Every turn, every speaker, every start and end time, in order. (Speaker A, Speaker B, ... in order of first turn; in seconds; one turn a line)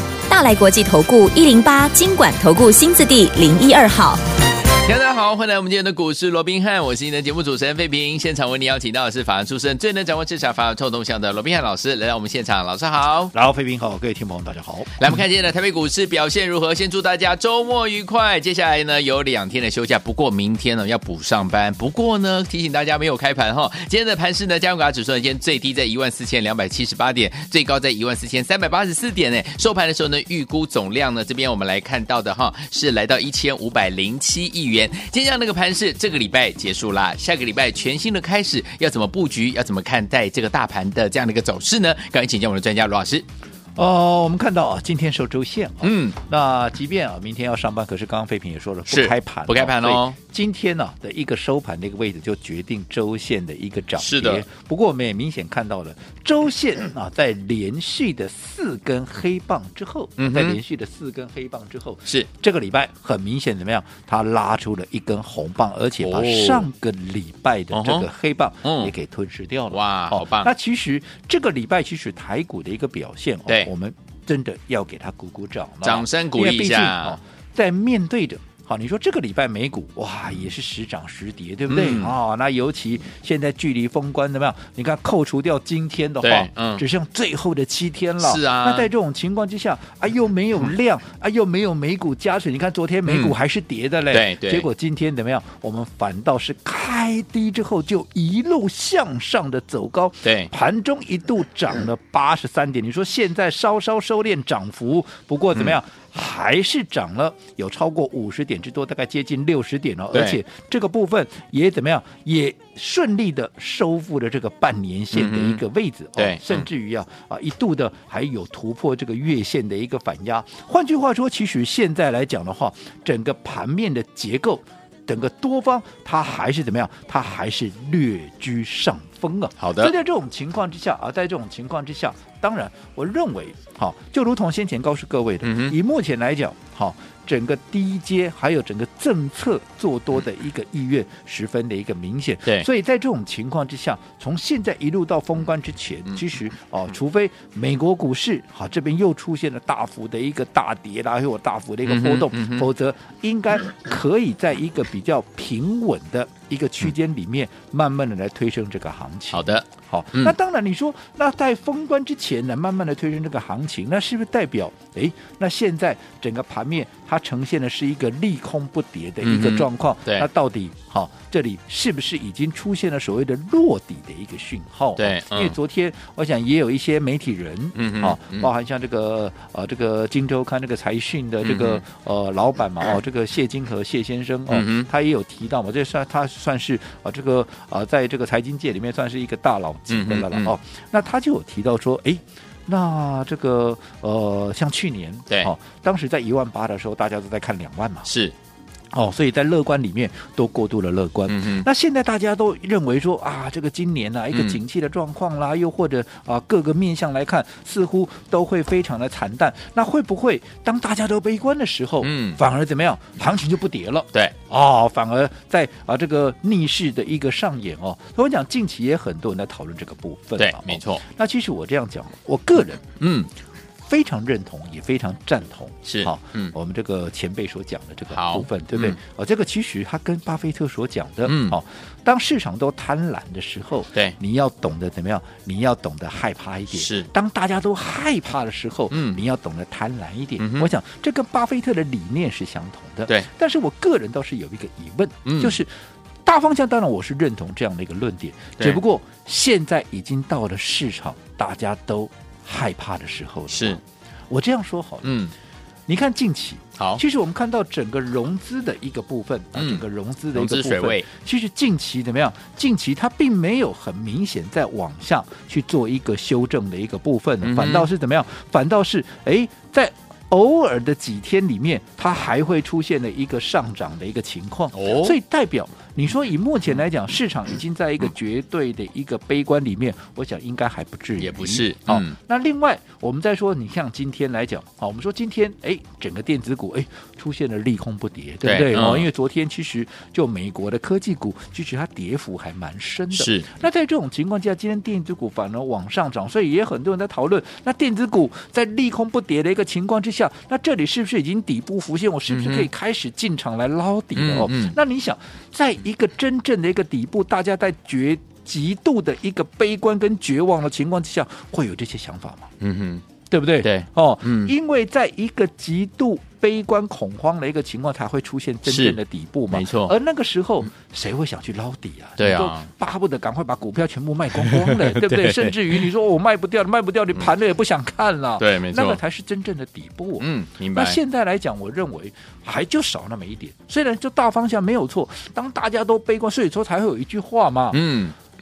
Speaker A: 0.3-4.2
Speaker B: 4.8-13.3
Speaker C: 13.3-14.9
Speaker B: 15.0-43.2
Speaker C: 43.8-198.1
Speaker B: 45.8-46.2
Speaker B: 48.9-50.2
Speaker B: 54.0-54.5
Speaker B: 60.2-60.6
Speaker B: 66.0-66.7
Speaker B: 67.7-68.1
Speaker B: 68.6-68.9
Speaker B: 69.7-70.5
Speaker B: 75.8-77.2
Speaker B: 81.7-82.1
Speaker B: 86.2-86.8
Speaker B: 88.2-88.9
Speaker B: 93.1-93.3
Speaker B: 94.1-94.7
Speaker B: 100.2-100.5
Speaker B: 110.1-110.4
Speaker B: 115.1-115.6
Speaker B: 116.2-116.7
Speaker B: 129.6-129.9
Speaker B: 135.4-135.8
Speaker B: 151.8-152.7
Speaker B: 159.3-160.4
Speaker B: 169.2-170.3
Speaker B: 175.0-175.6
Speaker B: 177.8-178.5
Speaker B: 181.4-181.8
Speaker B: 184.5-184.9
Speaker B: 189.9-190.6
Speaker B: 198.1-198.3
Speaker C: 198.9-222.9
Speaker B: 201.3-201.7
Speaker B: 204.3-204.6
Speaker B: 212.0-212.4
Speaker B: 220.4-221.0
Speaker B: 223.0-223.3
Speaker C: 223.9-245.7
Speaker B: 225.8-226.6
Speaker B: 228.1-229.0
Speaker B: 231.2-231.6
Speaker B: 236.7-237.1
Speaker B: 238.9-239.2
Speaker B: 240.4-240.7
Speaker B: 245.2-245.6
Speaker C: 246.2-255.1
Speaker B: 253.5-253.8
Speaker B: 255.0-255.3
Speaker C: 255.9-312.5
Speaker B: 259.6-261.1
Speaker B: 267.4-267.9
Speaker B: 274.7-275.2
Speaker B: 281.2-282.2
Speaker B: 288.4-289.1
Speaker B: 293.1-293.5
Speaker B: 302.3-302.7
Speaker B: 304.1-304.8
Speaker B: 312.6-313.0
Speaker C: 313.3-337.8
Speaker B: 313.6-314.5
Speaker B: 318.7-319.0
Speaker B: 319.5-319.9
Speaker B: 322.2-322.7
Speaker B: 324.4-325.9
Speaker B: 328.4-329.0
Speaker B: 330.2-331.0
Speaker B: 337.7-338.2